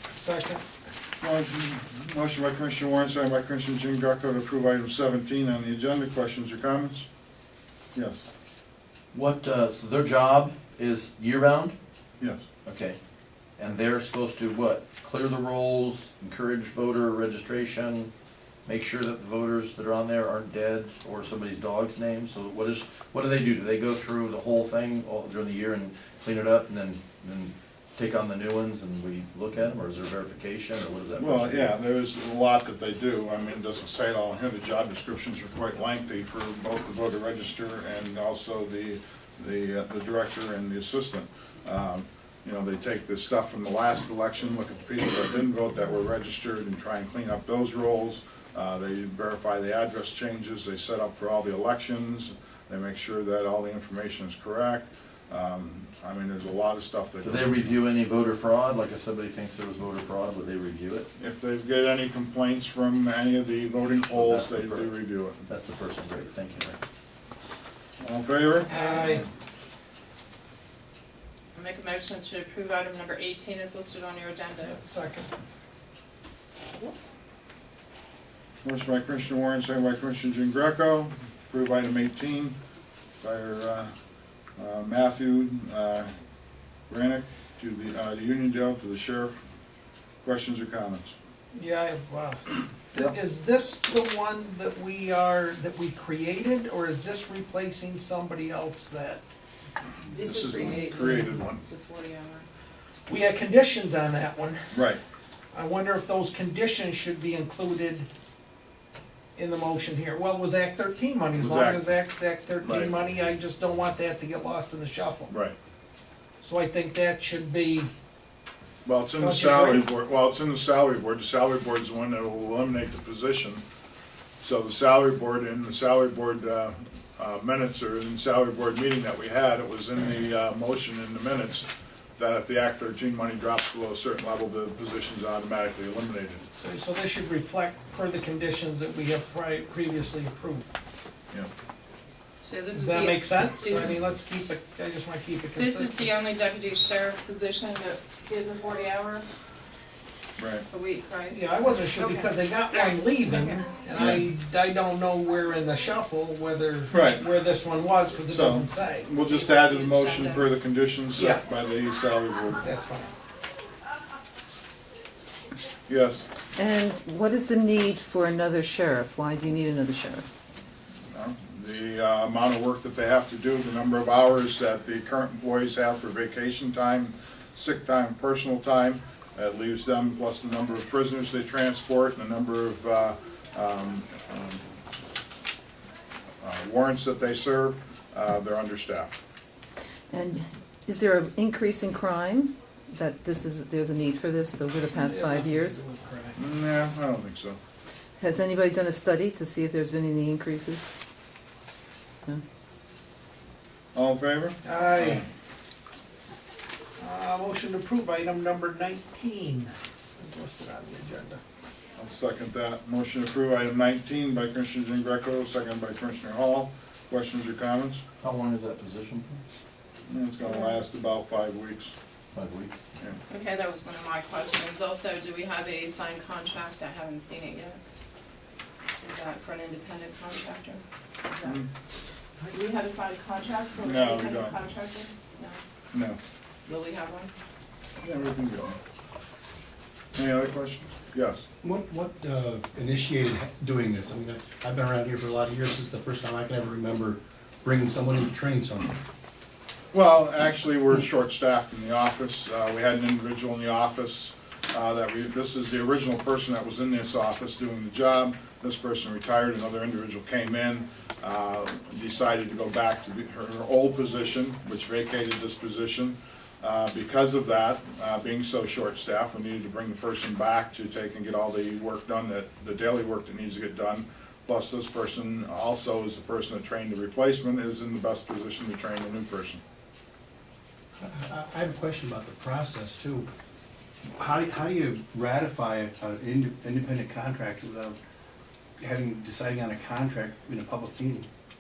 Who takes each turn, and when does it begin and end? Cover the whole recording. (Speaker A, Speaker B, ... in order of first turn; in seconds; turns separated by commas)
Speaker A: 0.1-0.6, Speaker B: 1.2-7.0, Speaker B: 7.9-8.2, Speaker C: 9.1-11.8, Speaker B: 12.2-12.4, Speaker C: 12.6-13.0, Speaker C: 13.6-18.1, Speaker C: 18.6-31.7, Speaker B: 31.1-57.7, Speaker C: 57.2-61.1, Speaker B: 61.2-65.4, Speaker C: 64.1-64.9, Speaker C: 65.4-66.8, Speaker B: 68.0-68.7, Speaker D: 68.7-69.2, Speaker A: 68.7-69.2, Speaker D: 71.5-74.8, Speaker A: 74.8-75.3, Speaker B: 78.6-82.5, Speaker B: 83.2-83.9, Speaker B: 84.6-86.1, Speaker B: 86.9-89.3, Speaker B: 90.2-91.1, Speaker A: 91.5-92.4, Speaker A: 92.9-99.2, Speaker D: 100.1-102.5, Speaker B: 100.1-101.6, Speaker A: 103.1-104.7, Speaker B: 104.7-105.0, Speaker A: 105.5-108.1, Speaker A: 109.3-115.3, Speaker B: 111.4-111.9, Speaker B: 112.6-113.0, Speaker B: 115.3-115.5, Speaker A: 116.4-117.9, Speaker B: 118.8-123.6, Speaker A: 119.2-119.9, Speaker B: 124.4-136.4, Speaker A: 136.6-140.7, Speaker D: 142.4-144.0, Speaker A: 142.7-146.1, Speaker D: 145.6-149.2, Speaker B: 150.4-150.6, Speaker D: 150.7-154.0, Speaker A: 151.3-159.1, Speaker B: 153.9-154.2, Speaker B: 156.9-157.2, Speaker B: 158.2-162.7, Speaker D: 159.1-160.4, Speaker A: 161.2-161.4, Speaker A: 162.6-163.1, Speaker B: 165.9-166.2, Speaker E: 166.6-170.2, Speaker B: 171.1-184.6, Speaker B: 186.4-189.1, Speaker E: 190.1-195.8, Speaker A: 194.9-196.3, Speaker B: 196.3-197.6, Speaker E: 198.2-200.8, Speaker B: 203.9-205.2, Speaker A: 204.6-205.2, Speaker A: 207.0-211.4, Speaker B: 212.0-218.0, Speaker C: 218.2-219.4, Speaker B: 220.1-221.9, Speaker D: 220.4-220.8, Speaker C: 222.3-222.8, Speaker D: 223.3-227.8, Speaker D: 229.0-231.6, Speaker D: 232.5-235.6, Speaker B: 233.8-234.6, Speaker B: 235.9-236.2, Speaker D: 236.7-237.3, Speaker B: 238.0-238.8, Speaker B: 240.1-241.4, Speaker F: 241.6-249.0, Speaker B: 249.9-279.6, Speaker F: 281.0-283.3, Speaker F: 284.2-288.0, Speaker F: 288.8-291.3